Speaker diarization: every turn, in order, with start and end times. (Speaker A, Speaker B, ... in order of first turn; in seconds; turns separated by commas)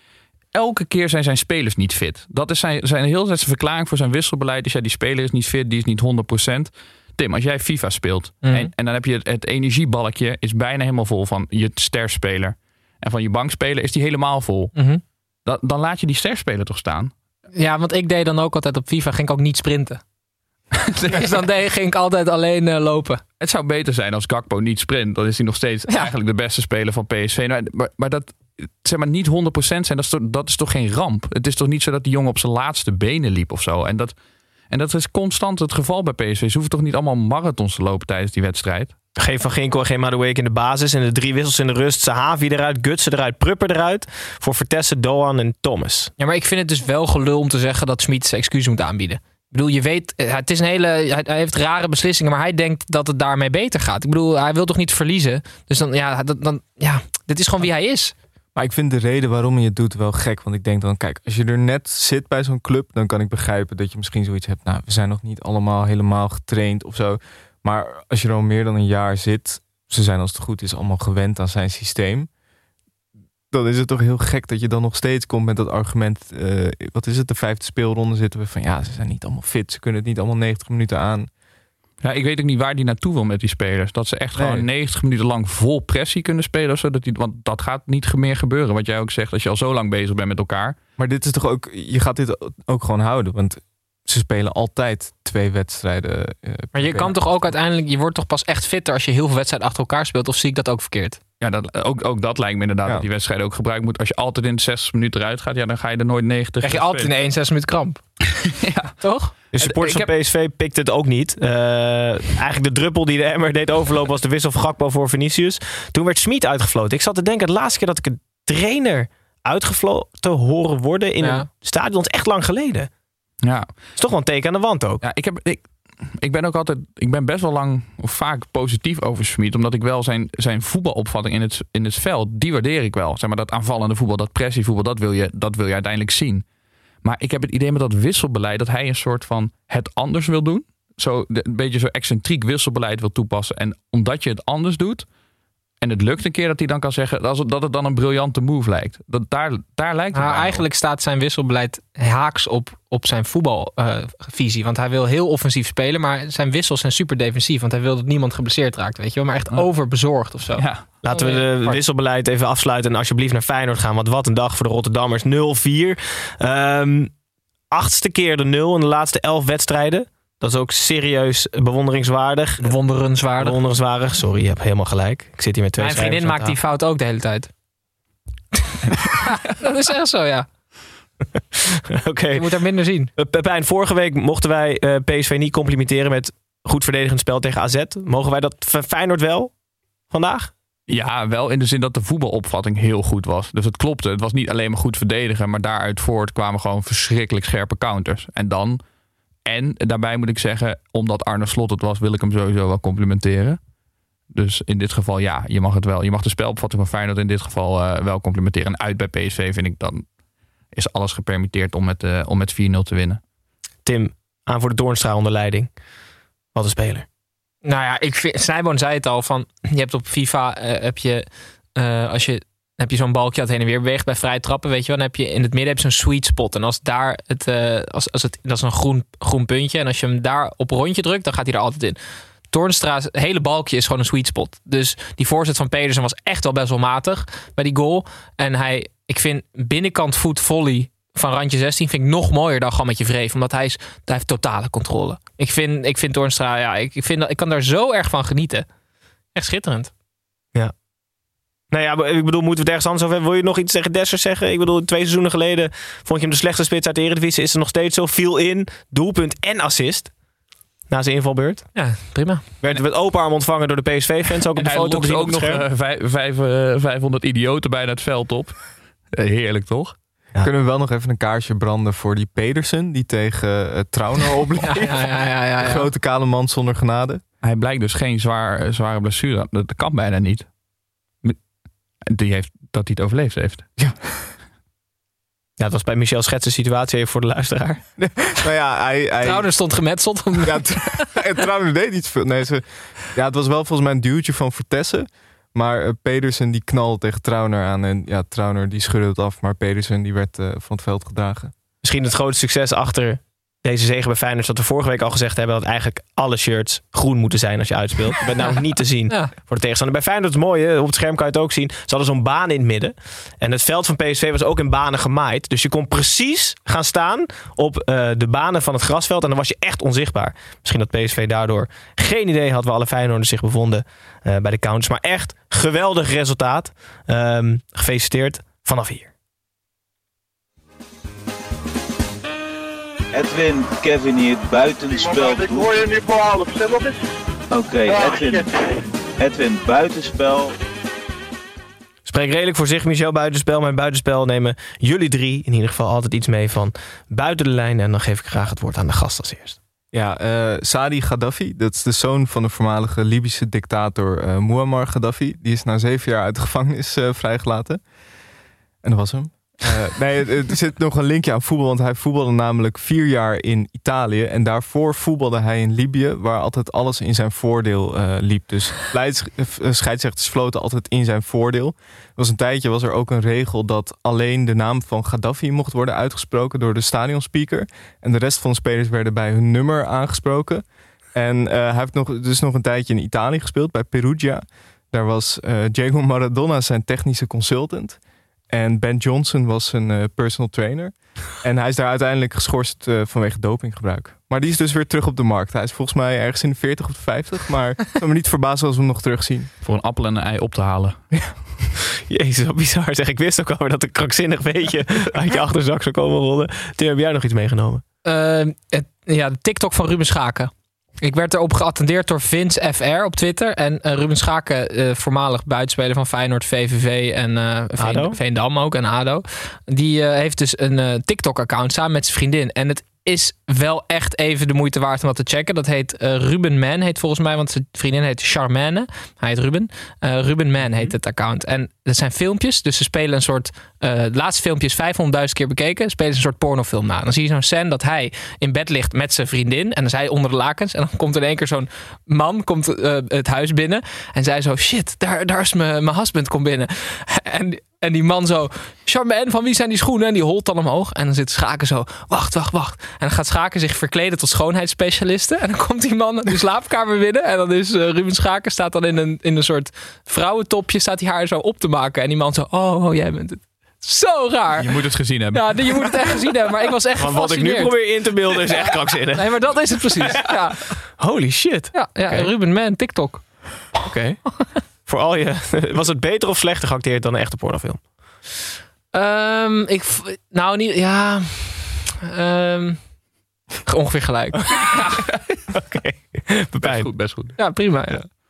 Speaker A: 0.5-14.7, Speaker B: 8.4-8.7, Speaker B: 14.7-15.0, Speaker A: 15.4-17.1, Speaker B: 17.5-20.0, Speaker A: 20.9-21.2, Speaker B: 21.0-23.2, Speaker A: 23.4-34.1, Speaker A: 34.7-38.9, Speaker C: 39.2-46.1, Speaker B: 46.2-58.1, Speaker D: 58.5-72.3, Speaker D: 73.5-81.3, Speaker A: 82.0-90.8, Speaker D: 84.3-84.7, Speaker D: 91.0-97.5, Speaker B: 96.7-101.2, Speaker A: 101.4-107.1, Speaker B: 106.6-108.0, Speaker A: 108.5-108.9, Speaker B: 109.0-109.3, Speaker C: 109.5-122.9, Speaker A: 109.5-110.1, Speaker B: 121.2-121.5, Speaker A: 123.4-123.7, Speaker C: 124.0-125.0, Speaker A: 125.0-125.7, Speaker A: 126.2-136.4, Speaker A: 137.0-145.1, Speaker A: 145.8-150.6, Speaker B: 150.1-161.8, Speaker A: 160.6-160.8, Speaker C: 161.0-167.1, Speaker C: 167.7-172.7, Speaker B: 172.6-173.6, Speaker C: 173.4-176.6, Speaker B: 175.8-177.5, Speaker B: 179.4-180.5, Speaker C: 181.9-182.4, Speaker B: 182.3-183.1, Speaker C: 183.2-189.5, Speaker C: 190.1-190.5, Speaker A: 190.9-198.8, Speaker A: 199.4-203.6, Speaker A: 204.3-210.0, Speaker A: 210.7-213.2, Speaker C: 213.8-215.7, Speaker C: 216.5-217.1, Speaker B: 217.6-232.0, Speaker B: 232.5-248.7, Speaker B: 249.3-249.9, Speaker C: 251.7-260.1, Speaker C: 260.9-261.8, Speaker B: 261.7-262.4, Speaker C: 262.6-265.6, Speaker A: 264.6-268.6, Speaker A: 269.1-269.9, Speaker D: 270.4-277.2, Speaker B: 274.6-275.9, Speaker A: 277.4-280.5, Speaker A: 282.1-283.6, Speaker D: 283.8-284.3, Speaker C: 285.6-287.8, Speaker D: 288.0-289.5, Speaker B: 289.2-291.0, Speaker D: 290.4-301.5, Speaker C: 301.8-329.1, Speaker E: 333.1-335.8, Speaker F: 334.9-337.0, Speaker E: 337.5-338.5, Speaker F: 337.8-338.5, Speaker E: 339.2-340.6, Speaker C: 342.1-349.6, Speaker D: 349.9-357.8, Speaker D: 358.8-388.0, Speaker D: 388.5-399.5, Speaker A: 399.6-401.0, Speaker C: 402.1-407.8, Speaker B: 408.0-410.5, Speaker B: 411.0-467.8, Speaker C: 417.8-418.1, Speaker A: 464.6-465.8, Speaker C: 467.0-469.4, Speaker B: 469.1-470.6, Speaker C: 471.0-472.3, Speaker B: 471.7-473.2, Speaker C: 473.8-474.2, Speaker C: 474.8-477.8, Speaker B: 478.9-482.8, Speaker B: 483.6-484.7, Speaker C: 484.5-484.8, Speaker C: 485.5-486.9, Speaker A: 486.6-487.4, Speaker B: 487.4-488.1